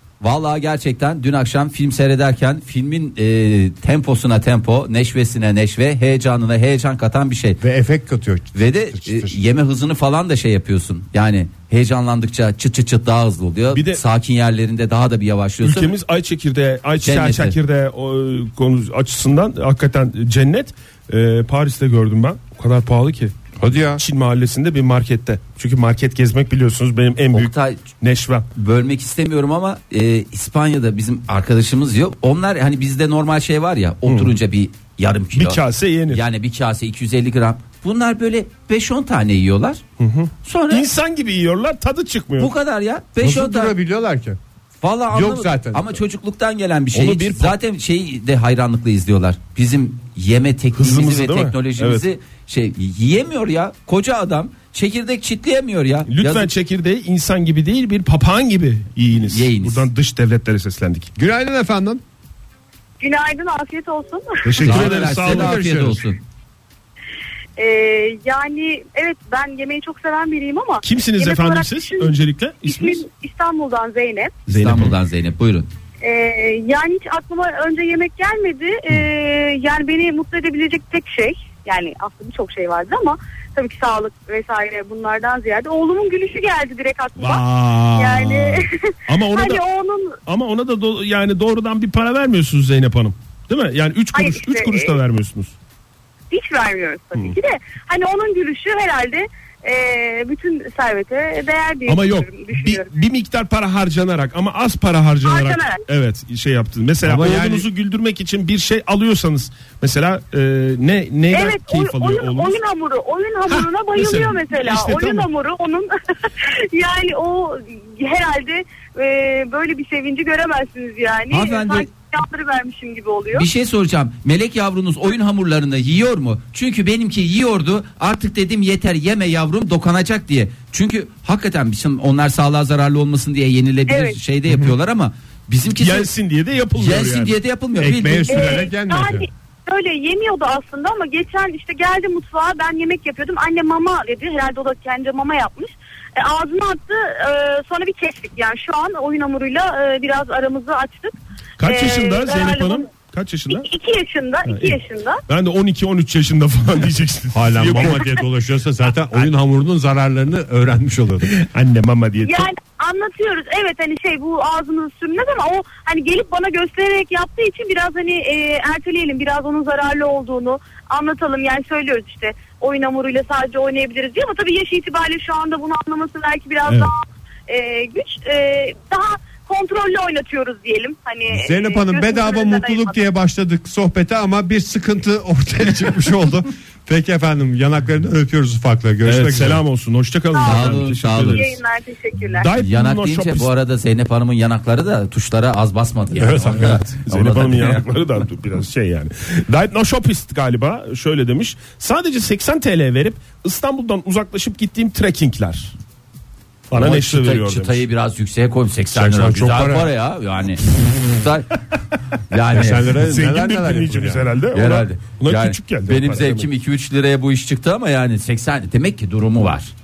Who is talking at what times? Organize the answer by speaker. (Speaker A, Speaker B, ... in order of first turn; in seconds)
Speaker A: 0.2-7.6, 8.6-15.9, 17.0-17.6, 27.3-27.9, 28.6-39.8, 40.4-40.9, 42.4-43.7, 44.8-56.5, 59.1-59.9, 64.6-66.2, 74.5-75.7, 121.3-121.9, 123.3-136.1, 136.8-138.6, 190.4-191.5, 192.6-197.8, 206.7-211.6, 212.3-212.9, 214.5-219.7
Speaker B: 7.6-9.4, 23.6-24.0, 43.2-44.4, 45.1-46.0, 61.2-62.0, 64.7-66.0, 107.0-107.7, 137.8-139.3, 157.3-161.3, 181.3-189.6, 196.2-196.8, 208.9-209.9, 212.5-214.3
Speaker C: 13.7-14.0, 15.6-23.3, 24.0-28.4, 34.1-34.4, 35.3-36.2, 40.0-42.5, 46.9-47.6, 50.8-52.0, 56.1-61.1, 64.5-65.8, 70.8-73.0, 74.5-75.0, 87.2-89.6, 90.3-95.5, 101.9-112.6, 113.5-115.3, 135.8-137.3, 151.6-153.7, 154.4-158.2, 161.3-162.5, 176.7-176.9, 189.1-191.6, 192.2-193.5, 196.5-205.7, 206.7-207.8, 212.9-216.5
Speaker D: 63.0-64.7, 67.6-74.4, 76.0-90.2, 94.1-95.0, 96.3-102.9, 105.2-105.8, 111.3-123.5, 133.9-134.2, 138.3-152.9, 153.5-155.2, 162.2-183.0, 190.3-192.5